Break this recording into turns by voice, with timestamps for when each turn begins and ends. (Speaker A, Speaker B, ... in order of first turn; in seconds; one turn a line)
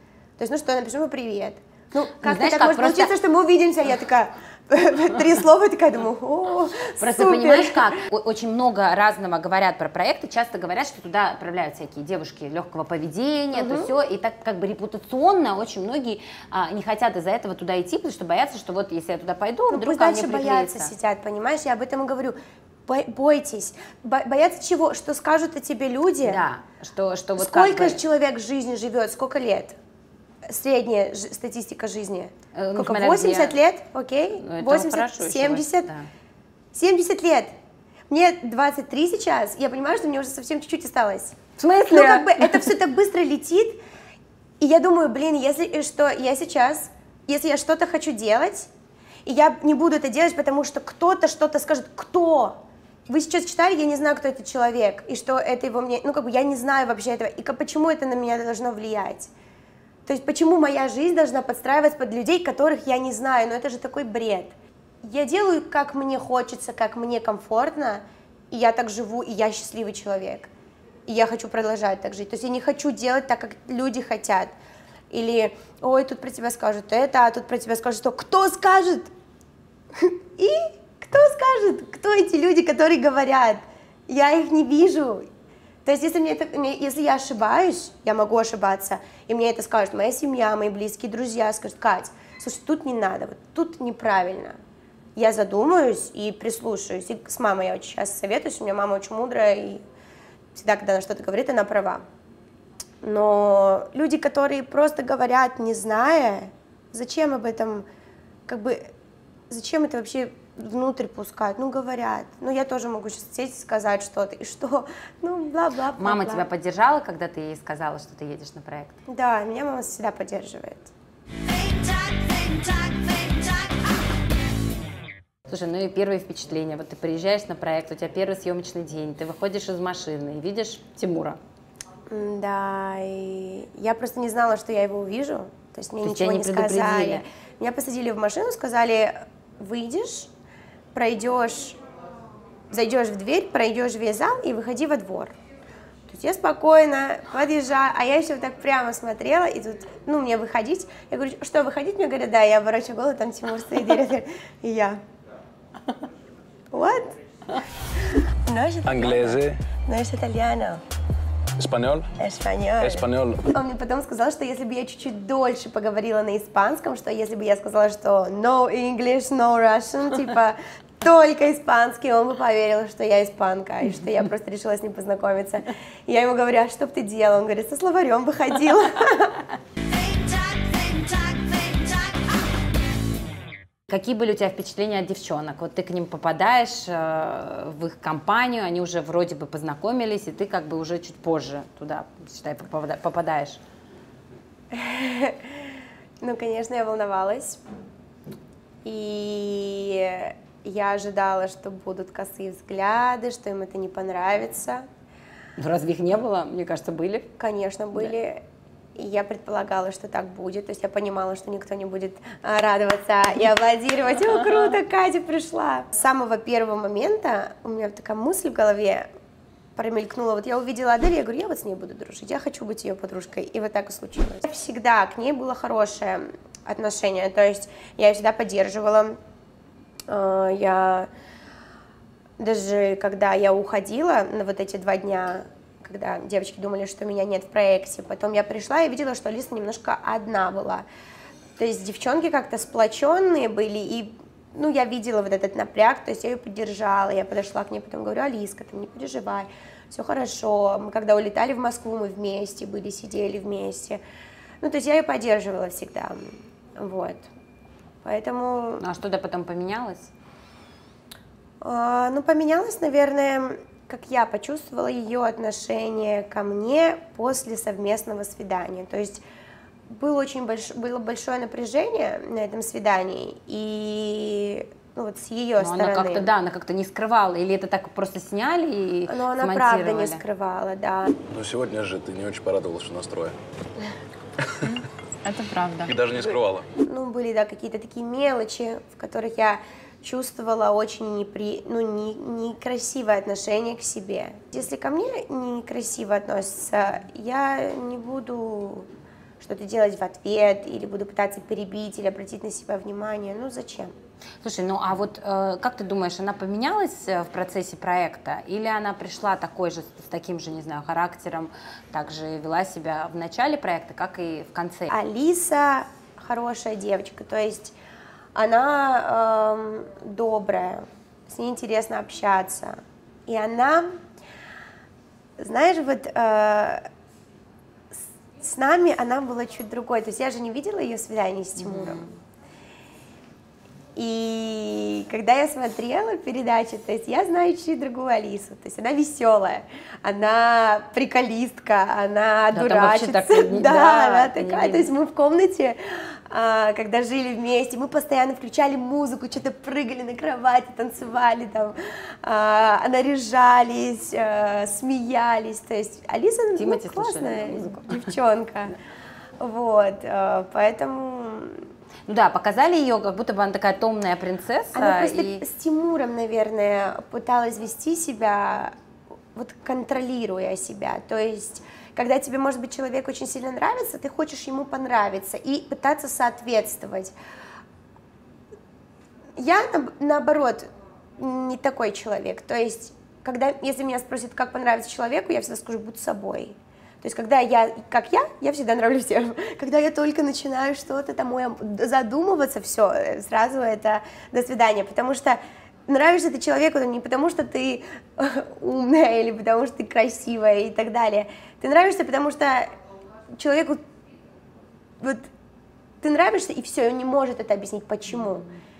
Speaker A: 0.4-8.0
Speaker B: 2.1-3.2
Speaker B: 7.0-20.9
Speaker A: 13.5-13.9
Speaker A: 19.7-26.4
Speaker B: 26.2-28.0
Speaker A: 27.4-29.8
Speaker A: 30.4-35.9
Speaker B: 32.5-33.6
Speaker B: 34.4-36.1
Speaker A: 36.7-37.5
Speaker A: 38.1-43.8
Speaker B: 41.6-42.6
Speaker A: 44.6-48.7
Speaker A: 49.2-59.3
Speaker A: 60.0-70.5
Speaker A: 71.0-74.5
Speaker A: 75.1-79.1
Speaker A: 79.9-85.3
Speaker A: 85.8-94.6
Speaker A: 95.2-99.8
Speaker A: 100.5-102.0
Speaker A: 103.0-107.8
Speaker A: 108.5-108.9
Speaker A: 109.5-116.4
Speaker B: 116.0-119.0
Speaker A: 119.1-120.9
Speaker B: 125.5-131.4
Speaker A: 132.1-140.3
Speaker B: 136.0-137.2
Speaker A: 140.9-141.8
Speaker A: 142.7-145.3
Speaker A: 146.1-155.0
Speaker A: 156.7-157.2
Speaker A: 158.1-160.8
Speaker C: 158.8-159.6
Speaker C: 161.6-162.1
Speaker A: 162.2-179.4
Speaker C: 162.8-163.5
Speaker B: 183.9-193.6
Speaker A: 194.7-195.6
Speaker A: 196.2-197.6
Speaker A: 198.8-204.9
Speaker B: 205.6-207.3
Speaker A: 207.4-208.4
Speaker A: 208.9-219.1
Speaker A: 219.8-229.2
Speaker A: 230.1-231.1
Speaker A: 232.4-240.8
Speaker A: 241.6-254.0
Speaker A: 254.6-257.3
Speaker A: 258.0-258.8
Speaker B: 258.8-260.1
Speaker A: 261.6-269.2
Speaker A: 269.9-276.3
Speaker B: 275.6-280.2
Speaker A: 279.1-281.1
Speaker C: 281.3-283.4
Speaker B: 284.6-285.9
Speaker C: 285.9-286.7
Speaker A: 286.8-298.9
Speaker A: 299.4-303.9
Speaker B: 304.4-314.9
Speaker A: 314.9-317.7
Speaker A: 318.3-323.9
Speaker A: 325.4-326.9
Speaker A: 327.9-332.1
Speaker B: 331.6-332.1
Speaker A: 333.9-358.8
Speaker B: 342.5-344.9
Speaker B: 356.6-358.1
Speaker A: 359.4-361.7
Speaker B: 362.1-365.4
Speaker A: 364.7-368.7
Speaker A: 369.3-377.1
Speaker A: 379.4-402.7
Speaker A: 403.3-403.8
Speaker A: 405.0-405.3
Speaker A: 406.0-408.4